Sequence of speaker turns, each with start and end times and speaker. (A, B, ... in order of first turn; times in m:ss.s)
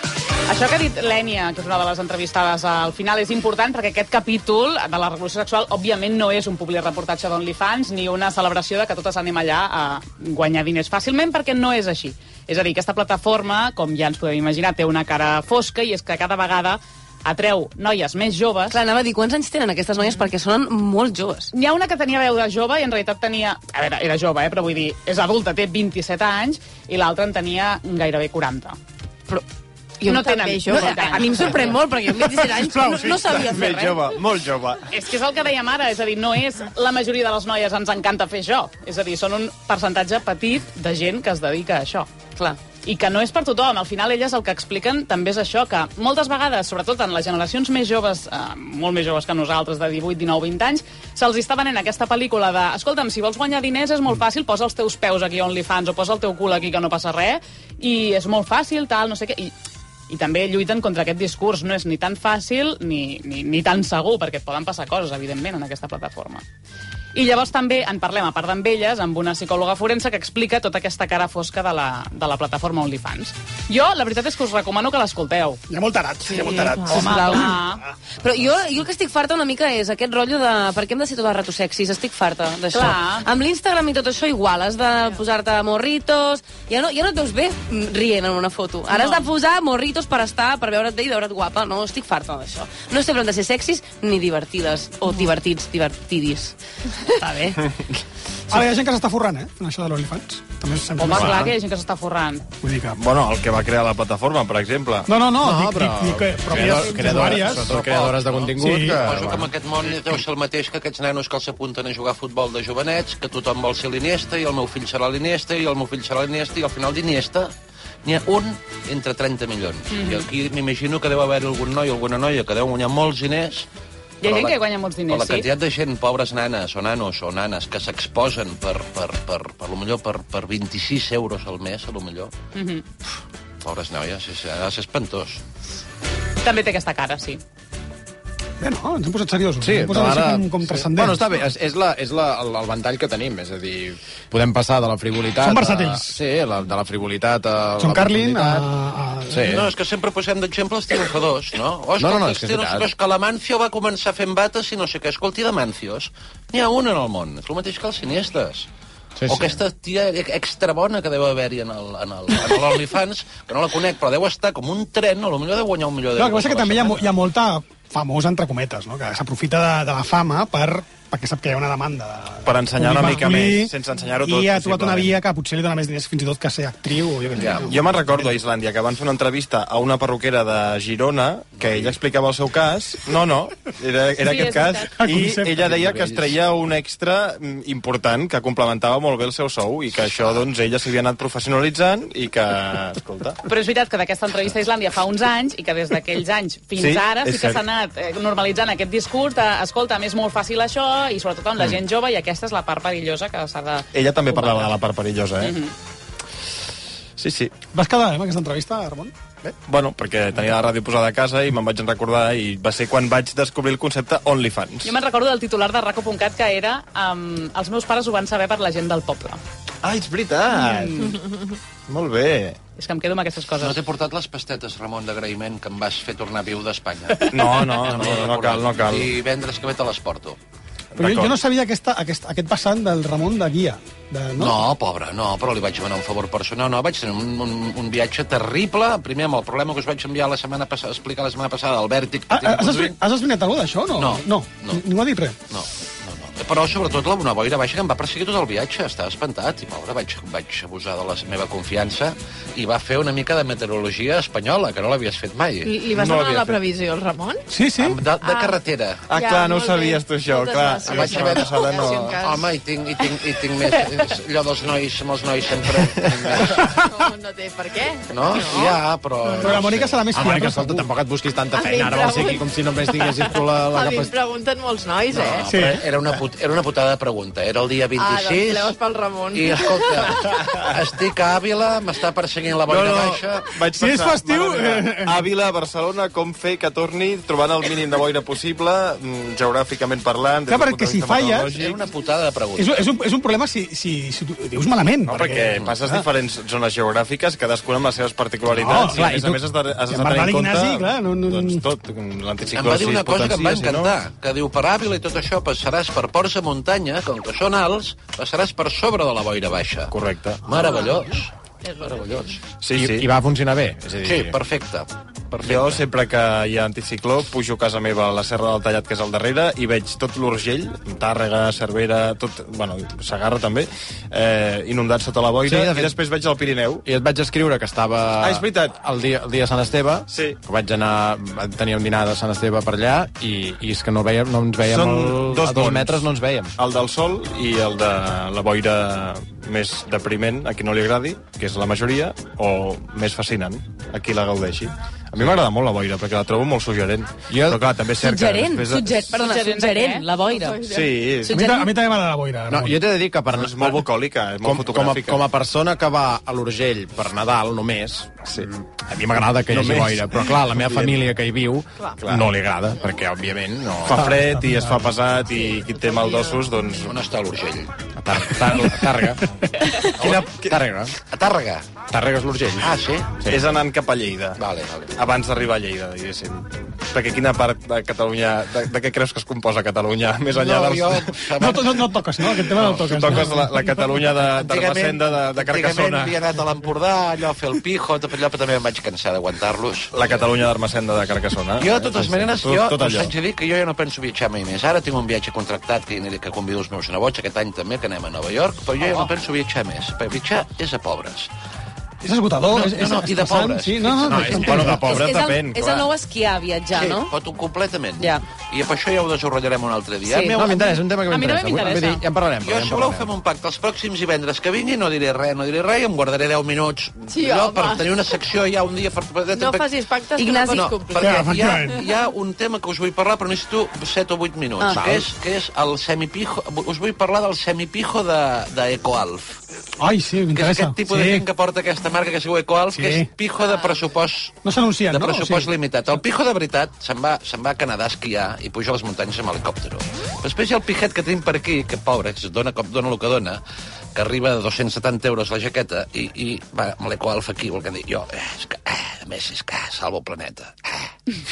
0:00.5-0:18.8 A
0:18.7-0:21.5 B
0:21.5-0:28.8 A
0:30.0-0:34.1 B
0:30.0-0:31.8 A
0:30.1-0:31.5 C
0:32.6-0:33.2 D
0:32.7-0:34.8 E
0:34.9-0:42.1 A
0:42.8-0:59.5 A
1:00.1-1:06.4 A
1:07.1-1:15.6 A
1:15.7-1:17.5 D
1:16.3-1:17.6 B
1:16.8-1:17.8 A
1:18.2-1:37.6 B
1:22.7-1:23.2 A
1:28.9-1:29.3 A
1:38.5-1:41.5 D
1:41.0-1:42.5 A
1:41.1-1:41.5 F
1:42.6-1:43.0 D
1:43.0-1:45.1 E
1:45.1-1:47.8 D
1:45.4-1:49.5 F
1:47.5-1:57.5 G
1:48.6-1:49.0 D
1:58.0-2:03.7 G
1:59.9-2:00.2 A
2:04.2-2:05.5 A
2:04.2-2:12.3 G
2:12.5-2:12.8 A
2:13.6-2:15.4 G
2:16.4-2:17.4 A
2:18.6-2:21.3 D
2:19.6-2:28.7 F
2:25.4-2:26.1 D
2:27.8-2:29.5 D
2:29.3-2:29.7 F
2:29.4-2:38.7 G
2:32.0-2:32.9 F
2:39.2-2:39.6 F
2:39.3-2:47.1 G
2:46.2-2:58.1 D
2:52.4-2:55.2 E
2:57.4-2:57.7 G
2:57.6-3:13.4 E
3:01.6-3:02.0 G
3:04.3-3:04.8 B
3:04.9-3:05.7 D
3:05.9-3:06.2 G
3:13.4-3:24.8 A
3:16.8-3:17.6 E
3:23.9-3:25.6 E
3:25.4-3:25.7 A
3:27.2-3:27.6 E
3:27.7-3:29.1 D
3:29.4-3:34.9 E
3:34.8-3:39.4 A
3:39.8-3:41.0 E
3:40.6-3:41.0 A
3:41.0-3:41.4 C
3:41.9-3:42.6 E
3:42.8-3:43.8 A
3:43.6-3:50.4 G
3:47.3-3:49.1 E
3:50.9-3:51.4 E
3:51.0-3:54.6 D
3:54.4-4:03.0 G
4:02.3-4:05.4 D
4:04.0-4:04.8 G
4:05.5-4:16.2 G
4:15.6-4:17.4 C
4:16.0-4:16.4 E
4:17.5-4:18.0 D
4:17.8-4:19.0 G
4:18.2-4:18.6 C
4:19.1-4:22.2 E
4:19.1-4:22.5 C
4:20.9-4:26.6 G
4:26.5-4:29.5 C
4:28.1-4:30.0 G
4:29.4-4:30.9 D
4:30.1-4:34.1 F
4:31.5-4:32.4 C
4:33.0-4:35.4 C
4:35.1-4:38.7 G
4:35.5-4:35.8 D
4:38.0-4:40.2 C
4:39.3-4:43.5 G
4:42.7-4:51.8 E
4:43.6-4:45.2 D
4:50.5-4:51.6 D
4:51.5-4:52.8 G
4:52.6-4:56.0 D
4:55.0-5:03.9 E
4:58.6-4:59.2 D
4:58.6-4:59.4 F
4:59.9-5:01.6 D
5:02.5-5:09.9 G
5:09.9-5:10.4 E
5:10.4-5:12.4 G
5:12.6-5:13.1 E
5:12.7-5:14.4 F
5:14.0-5:15.8 G
5:15.4-5:26.8 E
5:25.4-5:26.0 F
5:26.8-5:36.5 F
5:28.2-5:28.7 E
5:30.1-5:30.4 E
5:34.6-5:36.0 E
5:36.6-5:49.0 E
5:47.3-5:47.6 F
5:48.0-5:51.7 B
5:49.1-5:50.0 A
5:50.4-5:50.9 C
5:50.6-5:51.4 E
5:51.2-5:52.9 D
5:52.5-5:53.9 F
5:53.3-5:55.2 E
5:54.4-6:04.1 F
5:59.5-6:01.0 E
6:02.0-6:02.3 E
6:03.8-6:07.0 E
6:04.0-6:04.8 D
6:06.8-6:07.7 G
6:08.0-6:09.2 F
6:09.9-6:10.9 F
6:10.0-6:10.3 E
6:11.1-6:11.6 G
6:11.9-6:13.5 F
6:12.6-6:13.1 G
6:13.3-6:14.4 E
6:14.4-6:14.9 G
6:14.9-6:21.2 E
6:20.3-6:22.6 G
6:21.4-6:23.7 D
6:22.5-6:26.1 E
6:24.2-6:30.3 G
6:29.9-6:33.1 E
6:31.6-6:41.3 G
6:42.0-6:44.9 D
6:42.5-6:44.4 G
6:44.0-6:45.1 F
6:44.3-6:45.9 E
6:44.8-6:47.1 B
6:46.7-6:50.8 G
6:50.0-6:50.4 B
6:50.3-6:53.1 F
6:51.0-6:52.0 A
6:52.4-6:59.7 G
6:57.1-6:57.8 C
6:59.3-7:01.3 C
7:00.2-7:00.9 B
7:00.5-7:09.4 G
7:01.0-7:01.8 D
7:04.6-7:04.9 B
7:04.8-7:05.0 F
7:09.8-7:11.2 D
7:10.3-7:23.4 G
7:12.7-7:13.1 D
7:14.4-7:15.5 D
7:23.9-7:30.9 G